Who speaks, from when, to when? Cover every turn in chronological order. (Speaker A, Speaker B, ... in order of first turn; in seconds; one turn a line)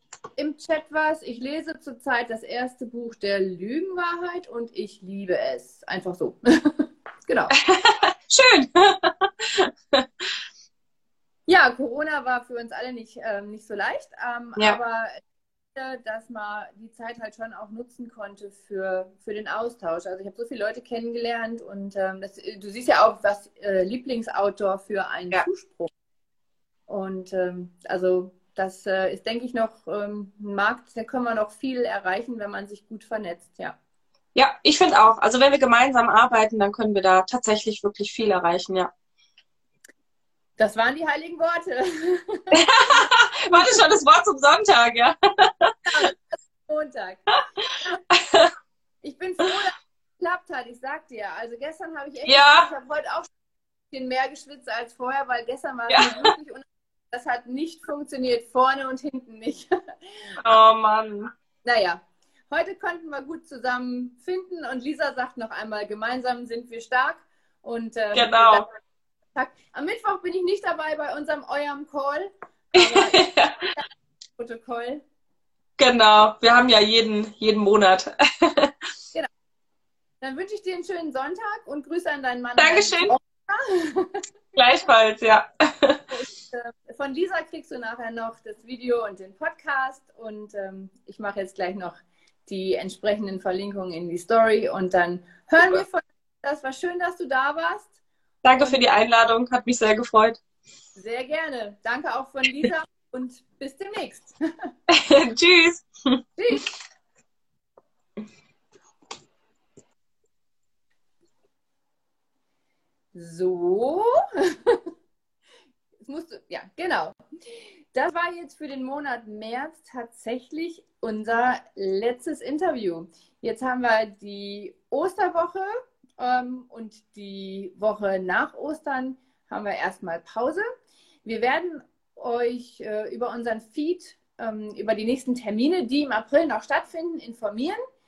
Speaker A: 0.4-7.5
Speaker B: 7.5-10.3
Speaker A: 11.5-15.2
Speaker A: 15.7-25.9
Speaker A: 26.9-33.8
Speaker B: 34.3-38.9
Speaker A: 40.6-43.8
Speaker B: 42.5-45.8
Speaker A: 45.9-47.2
Speaker B: 48.1-48.5
Speaker A: 49.0-53.3
Speaker B: 52.3-52.7
Speaker A: 53.9-60.4
Speaker B: 55.9-56.3
Speaker B: 60.4-61.3
Speaker A: 61.6-68.7
Speaker B: 68.1-68.7
Speaker A: 69.3-73.2
Speaker B: 72.8-73.7
Speaker A: 74.4-75.0
Speaker B: 75.8-78.7
Speaker A: 80.2-84.2
Speaker B: 82.6-83.1
Speaker B: 84.5-86.0
Speaker A: 86.1-97.9
Speaker B: 98.4-100.4
Speaker A: 101.0-104.4
Speaker B: 104.9-106.2
Speaker A: 106.4-106.7
Speaker A: 113.1-114.8
Speaker A: 116.0-130.6
Speaker A: 131.2-137.8